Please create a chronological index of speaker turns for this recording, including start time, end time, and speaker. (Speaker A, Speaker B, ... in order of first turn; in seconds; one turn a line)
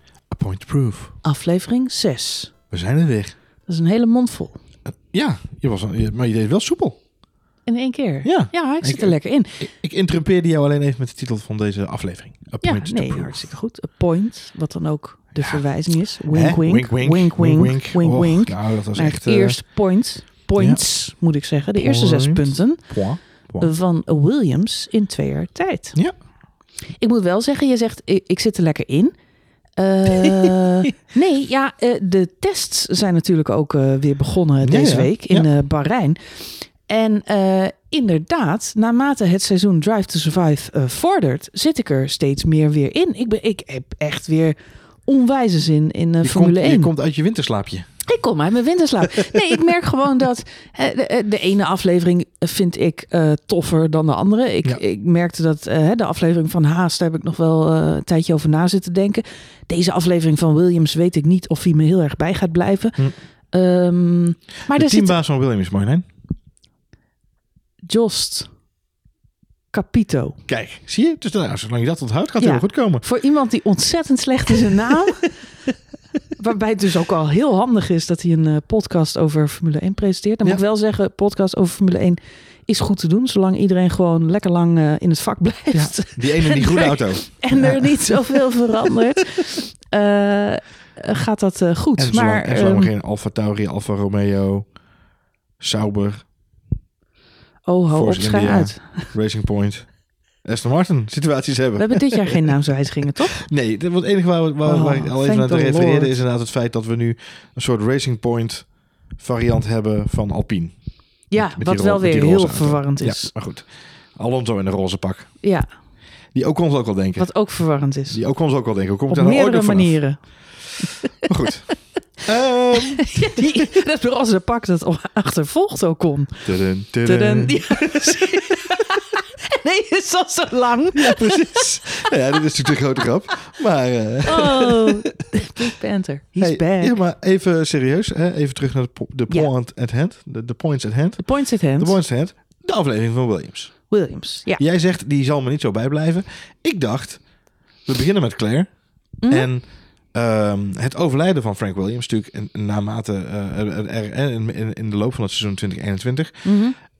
Speaker A: 0.3-1.1
Speaker B: 1.2-2.5
Speaker A: 2.7-3.3
Speaker B: 3.7-4.6
Speaker A: 5.1-7.0
Speaker B: 7.7-9.7
Speaker A: 8.2-13.4
Speaker B: 12.6-22.8
Speaker A: 16.3-19.6
Speaker A: 21.8-23.7
Speaker B: 23.6-25.9
Speaker B: 27.0-29.1
Speaker B: 29.8-46.9
Speaker A: 34.6-35.5
Speaker A: 46.2-47.9
Speaker B: 48.1-65.1
Speaker A: 64.7-66.0
Speaker B: 67.9-68.5
Speaker B: 69.7-70.4
Speaker A: 70.5-73.0
Speaker B: 72.4-75.3
Speaker B: 76.4-92.9
Speaker A: 85.7-88.9
Speaker A: 92.0-94.7
Speaker A: 95.6-96.2
Speaker B: 97.7-99.1
Speaker A: 97.9-99.9
Speaker A: 100.4-102.4
Speaker B: 101.8-103.4
Speaker A: 103.3-110.7
Speaker B: 104.6-106.1
Speaker B: 111.3-113.3
Speaker A: 111.4-115.3
Speaker B: 115.4-115.7
Speaker A: 116.3-117.3
Speaker B: 117.2-118.2
Speaker A: 118.1-120.0
Speaker B: 119.1-120.2
Speaker A: 121.2-121.7
Speaker A: 122.2-123.6
Speaker B: 122.9-126.5
Speaker A: 126.5-128.3
Speaker B: 127.0-131.9
Speaker A: 131.0-134.9
Speaker B: 134.2-136.9
Speaker A: 136.4-143.8
Speaker B: 141.2-142.0
Speaker B: 143.9-144.6
Speaker A: 144.6-147.2
Speaker A: 147.8-148.7
Speaker A: 149.3-156.4
Speaker B: 156.4-156.8